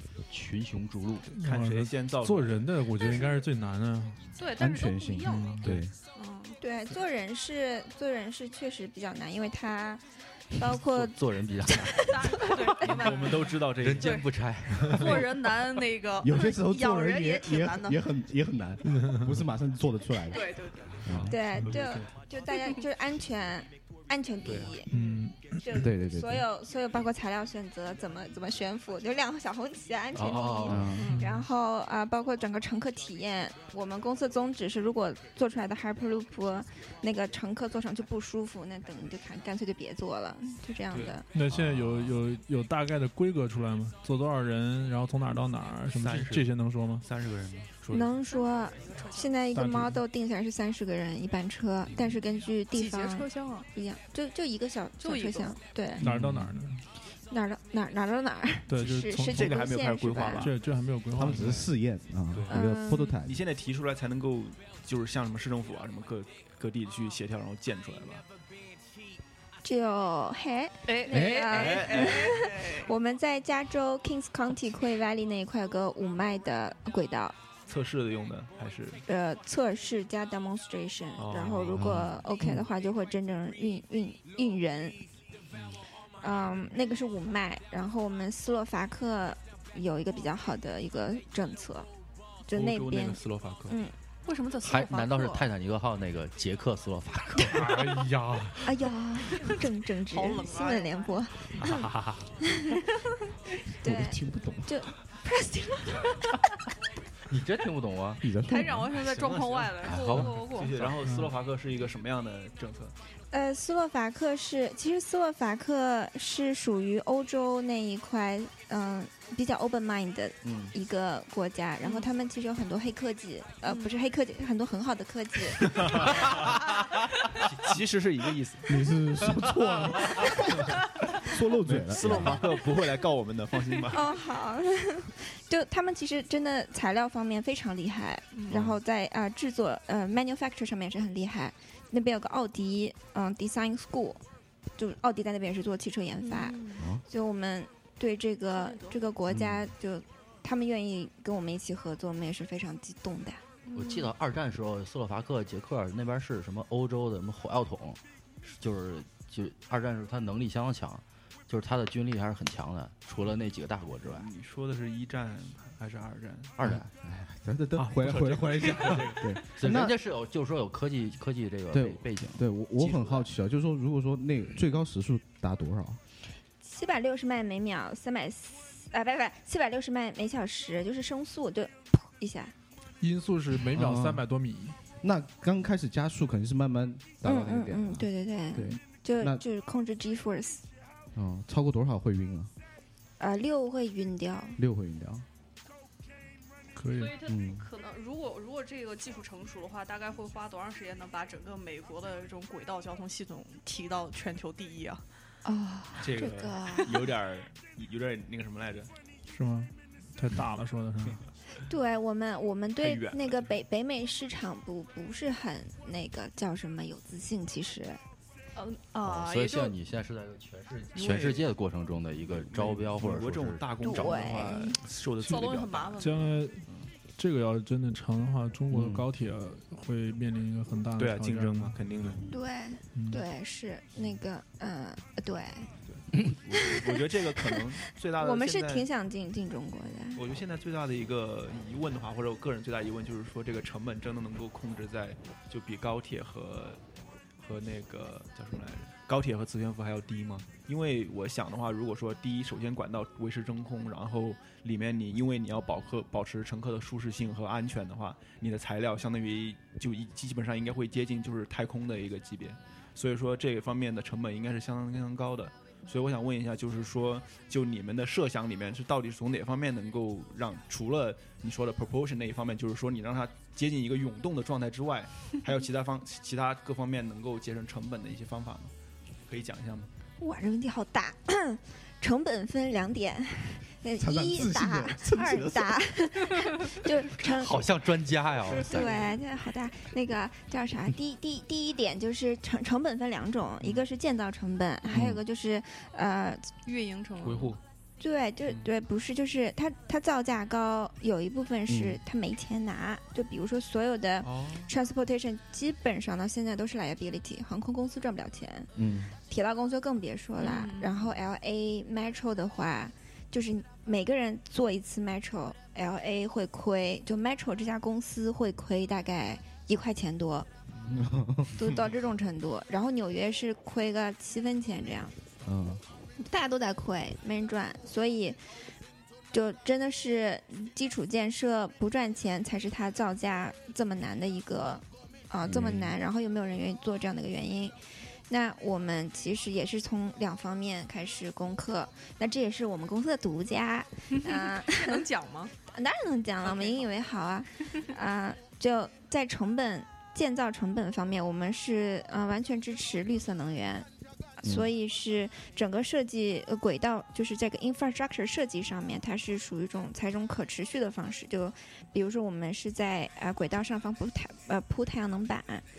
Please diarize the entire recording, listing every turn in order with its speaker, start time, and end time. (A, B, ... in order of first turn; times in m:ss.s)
0:00.3-0:01.3 A
0:01.3-0:03.3 B
0:01.4-0:04.4 C
0:04.4-0:05.6 D
0:04.6-0:05.9 E
0:05.3-0:05.7 C
0:06.1-0:06.6 D
0:06.6-0:12.5 F
0:10.7-0:15.6 A
0:12.0-0:18.0 D
0:12.8-0:14.5 B
0:16.2-0:21.3 E
0:19.0-0:19.3 C
0:20.2-0:21.2 D
0:21.0-0:22.1 B
0:21.3-0:24.9 F
0:22.5-0:22.8 D
0:24.4-0:25.2 B
0:24.9-0:25.8 C
0:25.6-0:41.2 F
0:25.8-0:26.4 E
0:30.1-0:31.0 A
0:30.7-0:31.1 E
0:31.0-0:31.3 D
0:31.0-0:31.5 C
0:40.9-0:41.2 B
0:41.3-0:47.1 C
0:41.5-0:42.1 A
0:46.0-0:48.1 B
0:47.9-0:56.0 F
0:48.2-0:49.4 D
0:49.5-0:50.0 C
0:52.7-0:53.7 D
0:55.0-0:55.6 D
0:56.0-0:56.8 C
0:56.0-0:56.4 E
0:57.3-1:00.5 F
0:58.7-0:59.7 C
0:58.8-1:00.6 B
1:00.3-1:01.7 C
1:01.1-1:03.4 E
1:01.3-1:01.7 B
1:02.3-1:02.6 B
1:02.5-1:03.1 F
1:03.2-1:08.2 B
1:09.6-1:17.4 F
1:10.9-1:12.9 D
1:11.1-1:12.4 B
1:17.7-1:19.0 B
1:19.1-1:25.0 F
1:21.2-1:22.0 B
1:25.5-1:25.8 B
1:26.2-1:31.9 F
1:32.5-1:33.9 F
1:32.5-1:33.8 B
1:34.2-1:35.5 D
1:34.6-1:37.9 A
1:37.4-1:38.8 C
1:38.6-1:41.9 F
1:39.5-1:41.2 D
1:41.6-1:42.2 A
1:42.4-1:42.8 F
1:43.7-1:46.2 F
1:43.8-1:44.8 E
1:47.3-1:48.3 A
1:48.2-1:48.9 E
1:48.4-1:50.8 D
1:48.9-1:52.9 B
1:49.8-1:50.4 A
1:51.0-1:51.4 C
1:53.3-2:06.1 F
2:00.4-2:00.7 E
2:01.8-2:02.1 D
2:03.6-2:04.0 D
2:05.6-2:10.3 B
2:08.7-2:12.4 E
2:11.6-2:14.0 B
2:13.9-2:24.2 F
2:18.3-2:18.6 D
2:18.5-2:18.8 B
2:24.8-2:33.4 F
2:26.2-2:26.9 D
2:28.5-2:29.0 D
2:29.3-2:29.7 E
2:33.6-2:34.1 D
2:33.7-2:44.3 A
2:44.1-2:46.6 B
2:46.6-2:46.8 A
2:46.6-2:50.0 E
2:47.8-2:49.4 B
2:49.6-2:52.4 A
2:51.7-2:56.0 E
2:52.8-2:53.3 B
2:56.6-3:02.5 F
3:03.0-3:04.8 C
3:03.7-3:04.3 E
3:05.0-3:09.4 E
3:07.2-3:10.6 F
3:11.1-3:12.5 E
3:13.2-3:14.6 F
3:14.6-3:15.2 E
3:16.8-3:17.2 C
3:17.0-3:25.0 D
3:17.3-3:17.7 E
3:25.5-3:27.0 F
3:26.0-3:28.9 B
3:29.3-3:31.2 C
3:31.7-3:38.0 F
3:32.8-3:33.5 B
3:38.6-3:39.8 D
3:39.0-3:44.3 A
3:41.0-3:41.5 B
3:42.3-3:46.0 B
3:43.8-3:44.8 F
3:45.2-3:46.5 D
3:46.0-3:52.2 C
3:48.7-3:49.1 E
3:51.0-3:52.3 B
3:52.3-3:55.7 F
3:52.9-3:53.2 C
3:55.9-3:58.9 B
3:56.6-3:57.6 F
3:58.2-4:00.2 F
4:00.1-4:06.8 B
4:07.4-4:38.7 B
4:39.3-4:39.9 B
4:40.2-4:47.6 F
4:44.0-4:46.1 E
4:47.2-4:49.1 A
4:48.6-4:56.5 F
4:48.6-4:49.0 D
4:53.6-4:53.9 B
4:54.9-4:55.2 E
4:56.6-4:57.6 D
4:57.2-4:57.6 B
4:58.0-5:08.7 F
5:01.7-5:02.0 E
5:04.2-5:04.7 B
5:08.8-5:09.1 E
5:09.2-5:20.5 F
5:10.4-5:11.0 D
5:20.7-5:21.9 B
5:20.9-5:21.5 E
5:21.6-5:25.1 F
5:25.4-5:25.8 E
5:26.2-5:28.4 F
5:29.3-5:37.8 F
5:35.5-5:35.9 E
5:38.3-5:45.0 F
5:44.1-5:45.5 D
5:45.7-5:53.9 F
5:46.4-5:46.9 D
5:54.4-6:05.7 F
5:54.4-5:54.7 E